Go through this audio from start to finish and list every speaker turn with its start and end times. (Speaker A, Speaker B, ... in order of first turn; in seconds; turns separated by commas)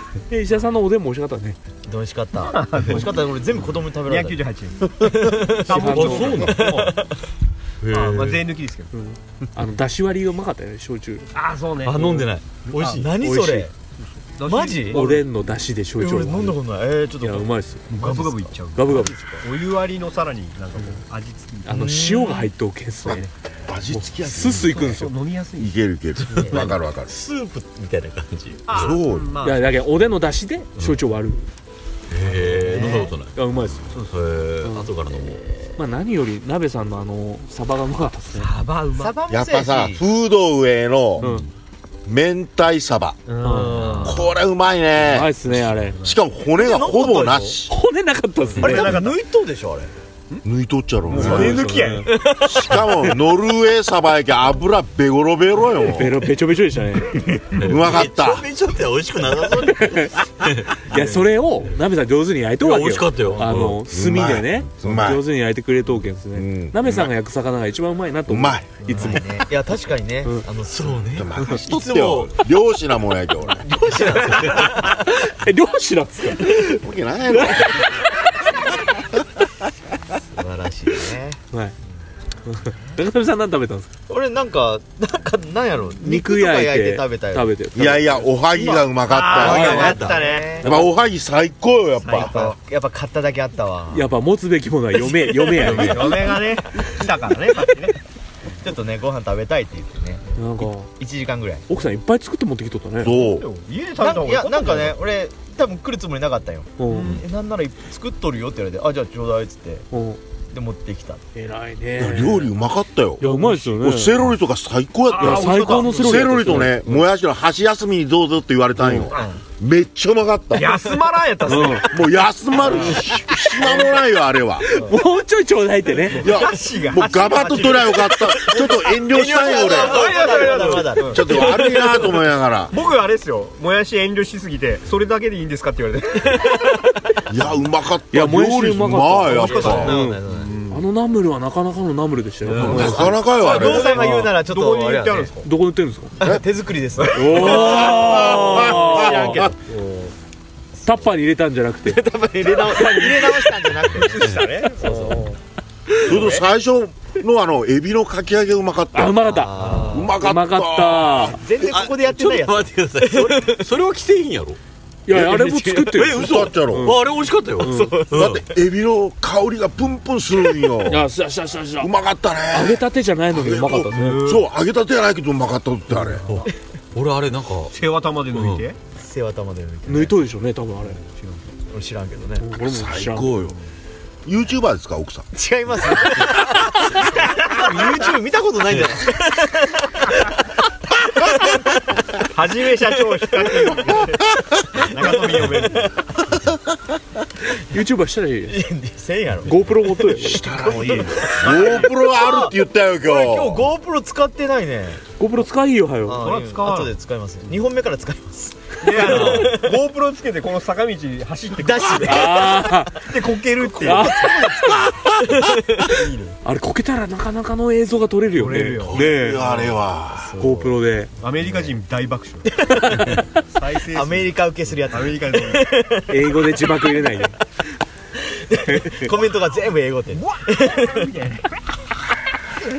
Speaker A: 0.3-1.6, Speaker B: 1.9-4.4, Speaker C: 2.4-3.2, Speaker C: 4.0-7.1, Speaker B: 4.9-7.2, Speaker D: 5.6-6.7, Speaker A: 5.7-6.5, Speaker D: 7.8-8.5, Speaker C: 7.9-8.9, Speaker A: 8.9-11.3, Speaker C: 11.3-13.1, Speaker D: 11.8-13.1, Speaker B: 12.9-13.7, Speaker A: 13.2-13.7, Speaker C: 14.0-15.3, Speaker B: 14.4-15.0, Speaker A: 14.9-16.6, Speaker B: 16.0-18.5, Speaker A: 17.2-17.9, Speaker C: 17.9-22.4, Speaker A: 18.8-19.2, Speaker A: 21.6-23.3, Speaker B: 21.7-22.5, Speaker C: 23.0-23.3, Speaker E: 23.7-24.9, Speaker A: 23.9-25.1, Speaker C: 24.5-26.7, Speaker E: 25.6-27.1, Speaker B: 26.4-26.7, Speaker D: 27.0-29.0, Speaker C: 28.6-29.8, Speaker E: 28.7-29.3, Speaker A: 29.4-31.5, Speaker D: 32.1-33.3, Speaker B: 32.5-33.1, Speaker A: 32.8-33.9, Speaker D: 33.9-35.5, Speaker A: 34.6-34.9, Speaker A: 35.8-38.5, Speaker C: 38.3-39.2, Speaker B: 38.9-40.0, Speaker E: 39.3-41.3, Speaker D: 41.2-41.5, Speaker E: 42.0-43.2, Speaker C: 43.3-44.3, Speaker A: 43.4-43.8, Speaker B: 43.6-44.1, Speaker E: 44.0-45.3, Speaker A: 45.0-46.0, Speaker C: 45.5-46.1, Speaker E: 46.0-47.7, Speaker B: 46.5-47.6, Speaker A: 47.7-49.0, Speaker B: 48.6-49.9, Speaker C: 48.6-49.2, Speaker E: 50.4-56.2, Speaker C: 51.1-52.3, Speaker A: 51.2-52.1, Speaker B: 52.0-52.8, Speaker A: 55.8-57.6, Speaker D: 57.6-61.2, Speaker E: 57.6-58.5, Speaker A: 60.9-69.3, Speaker D: 62.6-63.8, Speaker E: 63.7-65.2, Speaker E: 66.3-67.1, Speaker E: 68.3-68.8, Speaker B: 68.8-71.2, Speaker C: 68.9-69.1, Speaker D: 70.7-72.4, Speaker E: 71.2-73.7, Speaker B: 73.6-75.0, Speaker D: 73.9-74.7, Speaker A: 74.8-76.8, Speaker E: 76.7-77.9, Speaker A: 77.3-77.9, Speaker B: 80.3-81.4, Speaker A: 82.5-83.9, Speaker B: 84.1-87.5, Speaker A: 86.0-88.3, Speaker E: 87.7-89.9, Speaker C: 88.5-90.6, Speaker B: 89.3-90.7, Speaker D: 89.3-90.2, Speaker A: 89.5-90.0, Speaker A: 90.5-90.9, Speaker E: 90.6-92.5, Speaker C: 92.0-92.5, Speaker B: 92.1-94.1, Speaker A: 93.9-96.3, Speaker C: 95.2-98.0, Speaker B: 95.8-96.4, Speaker B: 98.6-100.2, Speaker A: 100.3-100.9, Speaker B: 101.0-101.7, Speaker A: 101.7-103.1, Speaker E: 103.0-103.5, Speaker C: 103.0-105.0, Speaker B: 104.0-109.9, Speaker A: 106.8-107.2, Speaker C: 106.9-107.2, Speaker A: 109.9-110.2, Speaker B: 110.5-111.2, Speaker A: 111.3-112.5, Speaker E: 112.0-120.7, Speaker A: 113.2-114.2, Speaker C: 115.1-116.0, Speaker A: 115.2-117.0, Speaker B: 115.3-116.2, Speaker C: 120.5-121.9, Speaker A: 121.4-121.9, Speaker E: 121.8-124.7, Speaker C: 122.6-122.9, Speaker B: 122.7-123.0, Speaker A: 123.3-123.8, Speaker A: 124.6-126.3, Speaker C: 125.9-136.8, Speaker E: 126.2-130.0, Speaker B: 127.2-128.1, Speaker D: 129.1-129.6, Speaker B: 129.3-131.5, Speaker E: 131.1-132.7, Speaker E: 137.3-140.0, Speaker A: 138.1-143.1, Speaker C: 139.3-140.8, Speaker B: 139.5-140.6, Speaker C: 142.4-145.5, Speaker E: 142.5-144.0, Speaker B: 142.6-145.3, Speaker A: 144.0-144.3, Speaker A: 145.4-146.1, Speaker B: 146.2-149.5, Speaker C: 147.0-150.1, Speaker A: 147.1-149.4, Speaker E: 147.6-149.5, Speaker B: 150.8-151.1, Speaker A: 150.8-152.0, Speaker B: 151.8-155.3, Speaker C: 152.4-155.3, Speaker C: 156.0-156.4, Speaker E: 156.0-159.2, Speaker A: 158.9-161.4, Speaker B: 159.2-160.2, Speaker C: 159.6-160.0, Speaker E: 159.8-161.4, Speaker B: 161.3-163.6, Speaker D: 161.6-164.6, Speaker A: 165.1-168.0, Speaker B: 165.1-166.0, Speaker D: 165.8-168.4, Speaker E: 166.2-166.9, Speaker B: 167.6-168.2, Speaker E: 168.1-171.1, Speaker A: 170.9-171.9, Speaker E: 171.8-176.2, Speaker A: 172.5-174.2, Speaker C: 173.9-174.4, Speaker A: 175.9-176.2, Speaker D: 176.2-177.8, Speaker C: 177.7-178.8, Speaker D: 178.3-178.7, Speaker B: 178.9-180.2, Speaker A: 179.9-181.0, Speaker C: 180.8-181.4, Speaker B: 181.7-182.4, Speaker A: 182.4-183.4, Speaker E: 182.6-183.6, Speaker E: 184.2-185.2, Speaker B: 185.3-190.3, Speaker B: 191.2-191.8, Speaker C: 192.3-196.0, Speaker A: 197.6-198.6, Speaker B: 198.4-205.0, Speaker A: 199.4-200.7, Speaker E: 200.2-203.7, Speaker A: 205.2-206.3, Speaker B: 206.0-209.8, Speaker C: 206.2-206.9, Speaker C: 208.8-215.0, Speaker B: 211.6-212.8, Speaker A: 212.0-213.1, Speaker A: 213.7-214.8, Speaker B: 213.8-215.9, Speaker C: 215.8-216.4, Speaker A: 216.4-219.4, Speaker C: 218.3-219.8, Speaker E: 218.9-220.3, Speaker B: 220.1-220.8, Speaker A: 220.4-221.1, Speaker C: 221.2-222.5, Speaker B: 222.5-223.2, Speaker C: 223.4-225.7, Speaker B: 223.9-226.2, Speaker A: 226.1-227.3, Speaker B: 228.3-231.1, Speaker A: 228.8-229.1, Speaker C: 230.1-231.6